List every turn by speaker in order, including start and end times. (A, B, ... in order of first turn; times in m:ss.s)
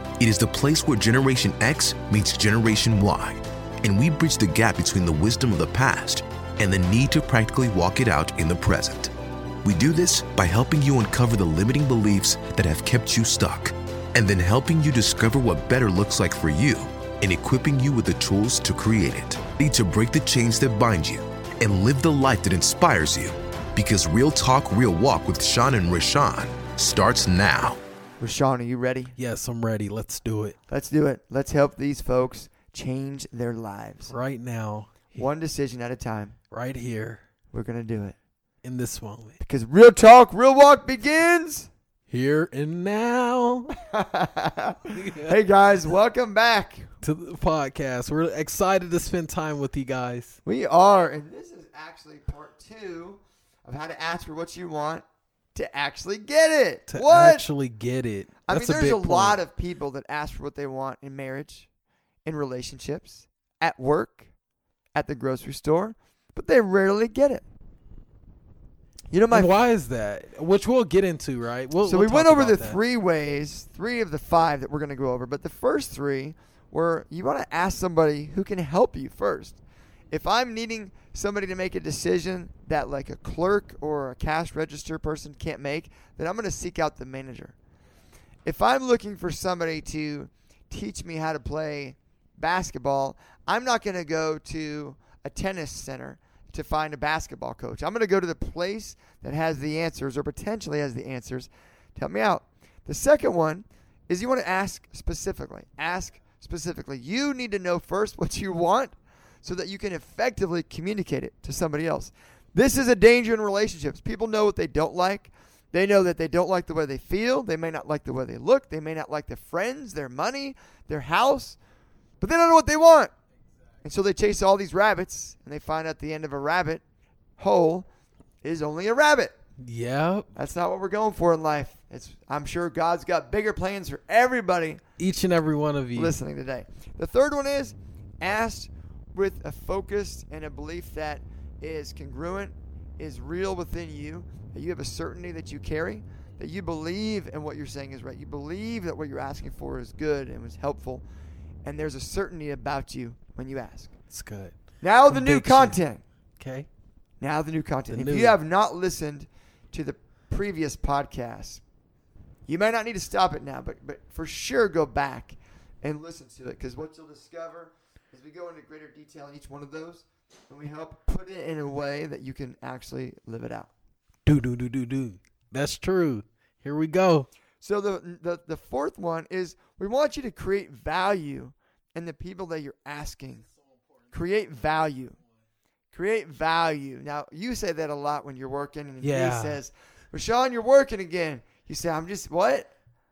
0:00.2-0:27.8 A
0:28.2-0:29.1 B
0:29.2-0:30.6 C
0:30.7-0:34.1 B
0:34.1-0:35.1 C
0:35.1-0:36.4 B
0:36.5-0:37.2 C
0:37.5-0:38.1 B
0:38.6-0:39.4 C
0:39.4-0:41.7 B
0:42.1-0:43.7 C
0:43.8-0:46.9 B
0:44.9-0:45.4 C
0:47.0-0:50.4 C
0:50.4-0:57.5 B
0:56.9-0:59.4 C
0:58.4-1:01.7 B
1:02.2-1:04.3 B
1:04.9-1:07.4 B
1:09.1-1:09.5 B
1:09.3-1:12.8 C
1:11.8-1:27.5 B
1:28.4-2:01.6 B
2:02.2-2:03.1 B
2:03.8-2:06.8 B
2:07.4-2:07.8 B
2:08.4-2:09.3 B
2:09.6-2:10.3 C
2:10.3-2:14.8 B
2:15.0-2:16.1 C
2:16.0-2:31.0 B
2:31.6-2:33.9 B
2:34.1-2:34.6 C
2:34.8-2:36.0 B
2:35.1-2:35.8 C
2:36.4-2:36.7 C
2:37.2-2:41.6 B
2:37.9-2:38.4 C
2:42.5-2:53.7 B
2:54.2-2:57.3 C
2:57.6-3:03.4 B
3:04.1-3:05.2 B
3:05.9-3:12.7 B
3:09.0-3:09.6 C